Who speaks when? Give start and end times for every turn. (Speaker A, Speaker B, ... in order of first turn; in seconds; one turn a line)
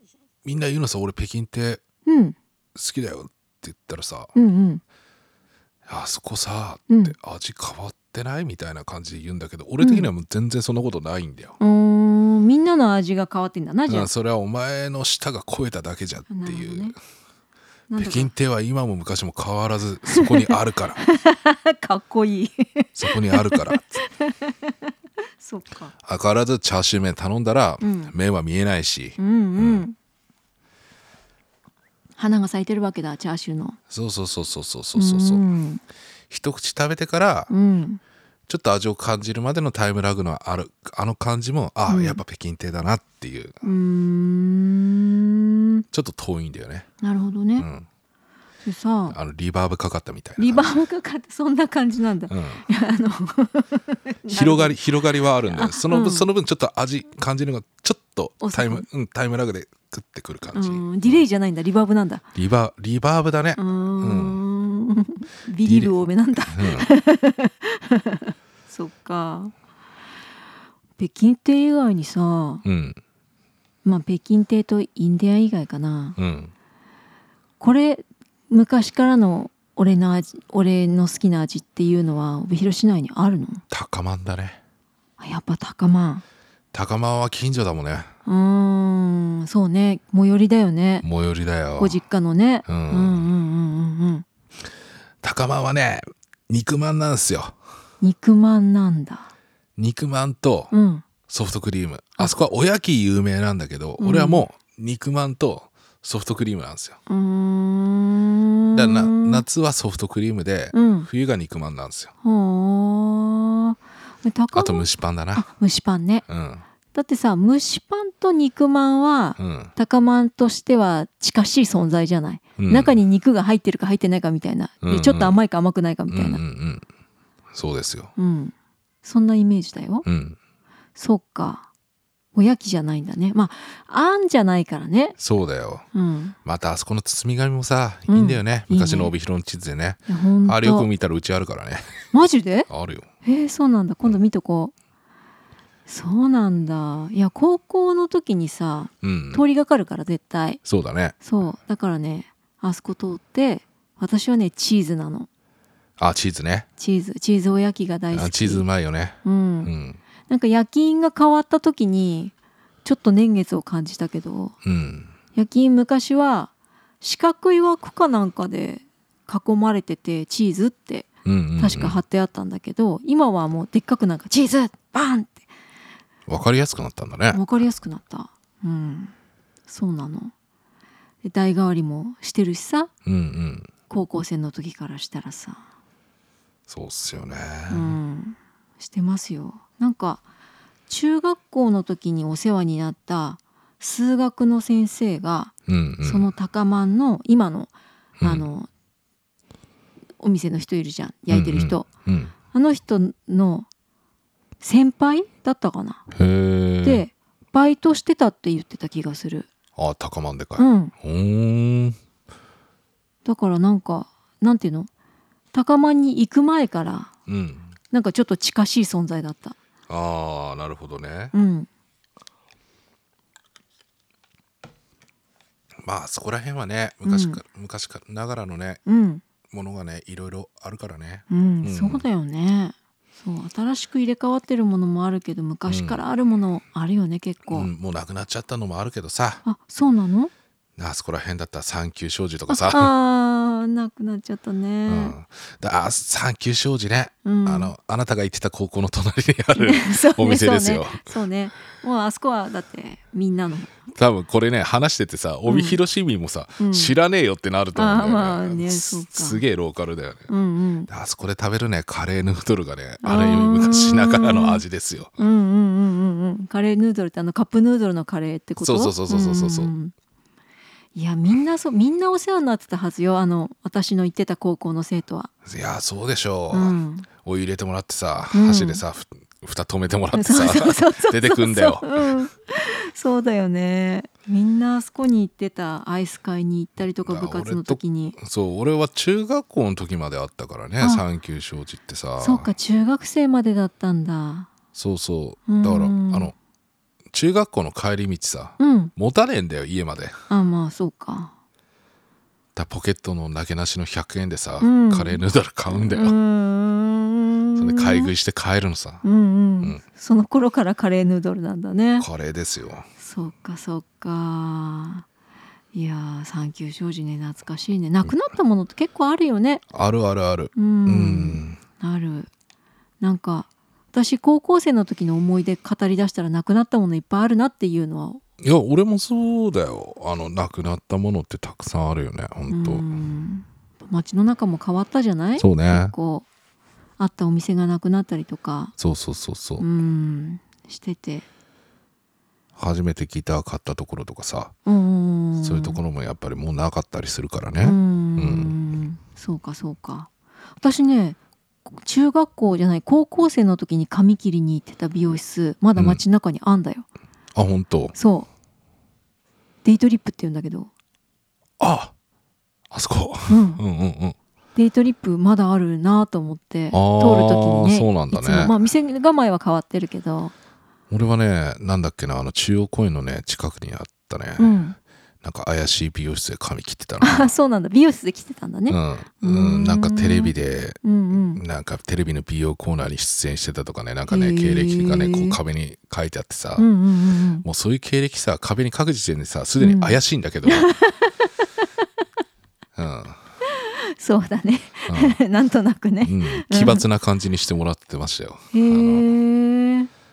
Speaker A: 0.4-1.8
Speaker B: 2.0-2.4
Speaker A: 2.7-4.3
Speaker B: 4.3-4.8
Speaker A: 5.9-11.6
Speaker B: 6.9-7.1
Speaker B: 9.8-10.1
Speaker B: 11.6-14.1
Speaker A: 13.9-16.9
Speaker B: 16.3-16.9
Speaker B: 17.9-18.3
Speaker A: 18.0-21.0
Speaker B: 20.1-25.9
Speaker A: 22.9-24.0
Speaker A: 26.0-29.9
Speaker B: 27.8-28.1
Speaker B: 29.2-29.9
Speaker B: 32.2-33.8
Speaker A: 33.9-35.4
Speaker B: 35.0-35.8
Speaker A: 36.3-37.5
Speaker B: 37.5-38.0
Speaker A: 38.5-43.6
Speaker B: 41.9-42.2
Speaker B: 43.6-45.8
Speaker A: 45.9-46.9
Speaker B: 47.0-47.7
Speaker A: 47.6-47.9
Speaker B: 48.6-49.1
Speaker A: 49.1-50.8
Speaker B: 50.4-54.8
Speaker A: 52.3-52.6
Speaker A: 54.3-61.2
Speaker B: 55.5-56.3
Speaker B: 58.4-58.9
Speaker B: 60.5-62.2
Speaker A: 62.3-64.4
Speaker B: 63.6-69.5
Speaker A: 65.6-66.9
Speaker B: 71.0-72.6
Speaker A: 72.6-73.0
Speaker B: 73.8-76.2
Speaker A: 76.2-76.5
Speaker B: 77.6-83.6
Speaker A: 83.7-84.6
Speaker B: 85.2-86.2
Speaker A: 86.7-88.1
Speaker B: 88.2-91.0
Speaker A: 91.0-92.0
Speaker B: 91.8-94.2
Speaker A: 92.7-93.2
Speaker A: 95.2-97.6
Speaker B: 98.0-99.3
Speaker A: 99.8-100.7
Speaker B: 100.7-101.0
Speaker A: 101.3-107.0
Speaker B: 104.0-104.4
Speaker B: 107.1-109.4
Speaker A: 108.7-112.1
Speaker B: 110.7-111.1
Speaker B: 112.2-116.2
Speaker A: 114.5-115.5
Speaker A: 116.3-116.6
Speaker B: 116.9-126.4
Speaker A: 119.4-119.7
Speaker A: 122.6-122.9
Speaker A: 124.8-125.4
Speaker A: 126.1-126.8
Speaker A: 127.5-128.1
Speaker B: 128.2-130.0
Speaker A: 130.0-130.4
Speaker B: 130.9-131.7
Speaker B: 132.3-135.2
Speaker A: 135.2-135.8
Speaker B: 135.9-136.3
Speaker A: 136.4-142.0
Speaker B: 138.1-139.1
Speaker B: 140.1-140.9
Speaker B: 142.1-142.7
Speaker A: 142.7-143.1
Speaker B: 143.2-144.7
Speaker B: 145.9-150.6
Speaker A: 149.0-149.4
Speaker A: 150.6-151.1
Speaker B: 151.2-155.3
Speaker A: 156.0-156.7
Speaker B: 156.8-158.7
Speaker A: 158.1-160.0
Speaker B: 159.2-159.7
Speaker B: 160.3-162.3
Speaker B: 162.8-164.6
Speaker A: 164.6-165.1
Speaker B: 165.3-175.5
Speaker A: 171.2-172.0
Speaker A: 176.3-177.4
Speaker B: 177.3-179.1
Speaker B: 179.7-180.3
Speaker B: 181.2-182.9
Speaker A: 183.1-183.7
Speaker B: 183.9-185.7
Speaker A: 186.7-187.9
Speaker B: 187.7-190.2
Speaker B: 190.9-198.7
Speaker A: 195.7-196.2
Speaker A: 198.2-198.5
Speaker B: 200.2-201.9
Speaker A: 201.3-202.3
Speaker B: 202.5-203.7
Speaker B: 204.6-206.1
Speaker A: 206.1-207.1
Speaker B: 206.8-209.5
Speaker A: 209.8-212.0
Speaker B: 210.6-210.9
Speaker B: 213.2-214.9
Speaker B: 215.5-217.1
Speaker A: 217.3-217.7
Speaker B: 217.9-219.6
Speaker A: 219.9-221.3
Speaker B: 221.3-221.7
Speaker A: 225.8-228.8
Speaker B: 227.0-227.4
Speaker B: 228.8-229.2
Speaker A: 229.5-232.0
Speaker B: 231.3-237.7
Speaker A: 235.7-236.0
Speaker A: 237.5-239.4
Speaker B: 239.4-240.3
Speaker A: 240.8-242.9
Speaker B: 242.5-245.2
Speaker A: 244.9-251.1
Speaker B: 247.2-247.7
Speaker B: 249.5-253.9
Speaker A: 253.9-260.3
Speaker B: 255.5-255.8
Speaker B: 256.6-256.9
Speaker B: 257.7-259.4
Speaker B: 260.3-260.9
Speaker A: 260.9-265.2
Speaker B: 263.0-264.6
Speaker B: 265.2-269.9
Speaker A: 268.6-269.7
Speaker B: 270.9-275.3
Speaker A: 275.4-282.2
Speaker B: 276.5-277.1
Speaker B: 278.3-278.8
Speaker B: 280.1-288.2
Speaker A: 287.0-292.5
Speaker B: 292.2-294.5
Speaker A: 294.7-296.3
Speaker B: 295.5-296.3
Speaker A: 297.1-300.2
Speaker B: 298.6-298.9
Speaker B: 300.3-301.3
Speaker A: 302.5-306.1
Speaker B: 304.6-308.1
Speaker A: 307.6-309.0
Speaker B: 309.0-312.1
Speaker A: 312.0-312.9
Speaker B: 313.0-315.1
Speaker B: 315.7-319.6
Speaker A: 319.7-321.6
Speaker B: 320.5-322.3
Speaker B: 323.0-328.2
Speaker A: 328.4-332.8
Speaker B: 332.5-336.3
Speaker A: 335.4-335.9
Speaker B: 337.0-338.7
Speaker A: 338.8-339.6
Speaker B: 339.6-341.3
Speaker A: 342.6-344.5
Speaker B: 344.6-345.8
Speaker A: 345.4-348.5
Speaker B: 347.6-356.9
Speaker A: 355.8-356.0
Speaker A: 357.3-357.9
Speaker B: 357.9-358.3
Speaker B: 359.6-360.7
Speaker A: 361.6-361.9
Speaker A: 362.7-364.1
Speaker B: 363.3-363.6
Speaker B: 364.5-370.3
Speaker A: 366.7-368.5
Speaker A: 370.9-374.6
Speaker B: 374.4-374.8
Speaker A: 375.2-377.3
Speaker B: 377.0-381.4
Speaker A: 378.7-386.7
Speaker B: 384.1-385.4
Speaker B: 386.6-387.4
Speaker A: 387.4-390.7
Speaker B: 389.6-391.3
Speaker A: 392.8-393.2
Speaker B: 393.5-396.8
Speaker A: 394.9-395.2
Speaker A: 396.0-399.1
Speaker B: 398.5-399.9